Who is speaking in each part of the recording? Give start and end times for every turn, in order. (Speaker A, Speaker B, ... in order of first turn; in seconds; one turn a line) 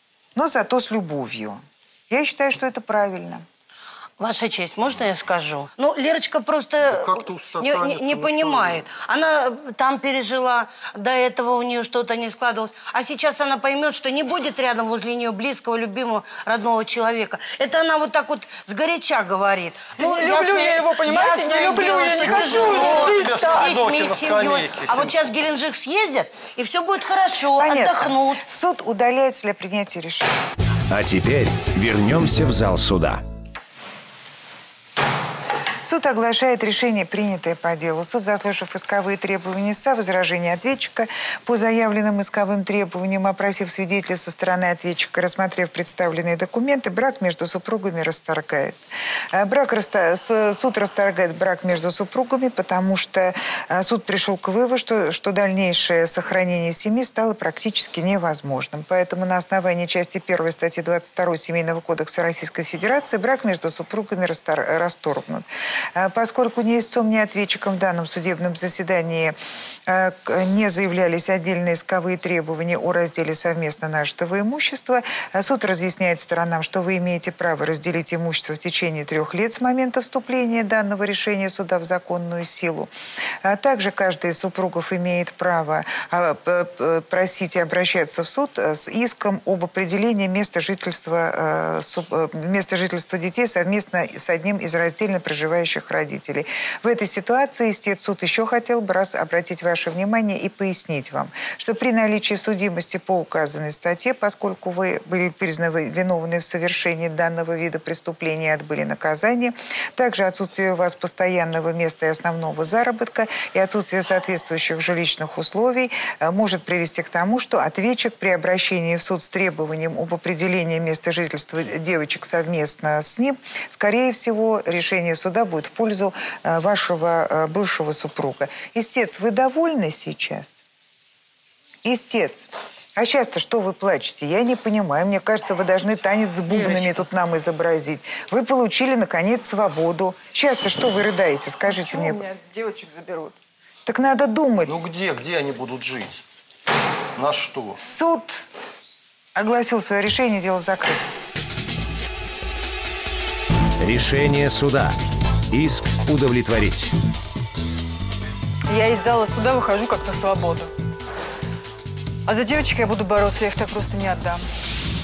Speaker A: 0.3-3.5
Speaker B: 4.2-28.4
Speaker C: 6.8-8.9
Speaker D: 20.0-23.3
Speaker C: 22.2-25.2
Speaker A: 27.6-30.3
Speaker E: 30.9-33.2
Speaker A: 35.8-48.8
Speaker A: 49.3-69.4
Speaker A: 69.9-82.9
Speaker A: 83.4-130.6
Speaker A: 131.8-142.2
Speaker D: 141.6-143.3
Speaker A: 143.9-144.9
Speaker C: 144.7-146.2
Speaker C: 147.1-147.8
Speaker A: 147.8-148.5
Speaker A: 149.4-151.1
Speaker E: 153.8-155.0
Speaker E: 155.5-156.9
Speaker D: 158.7-160.7
Speaker D: 162.2-164.4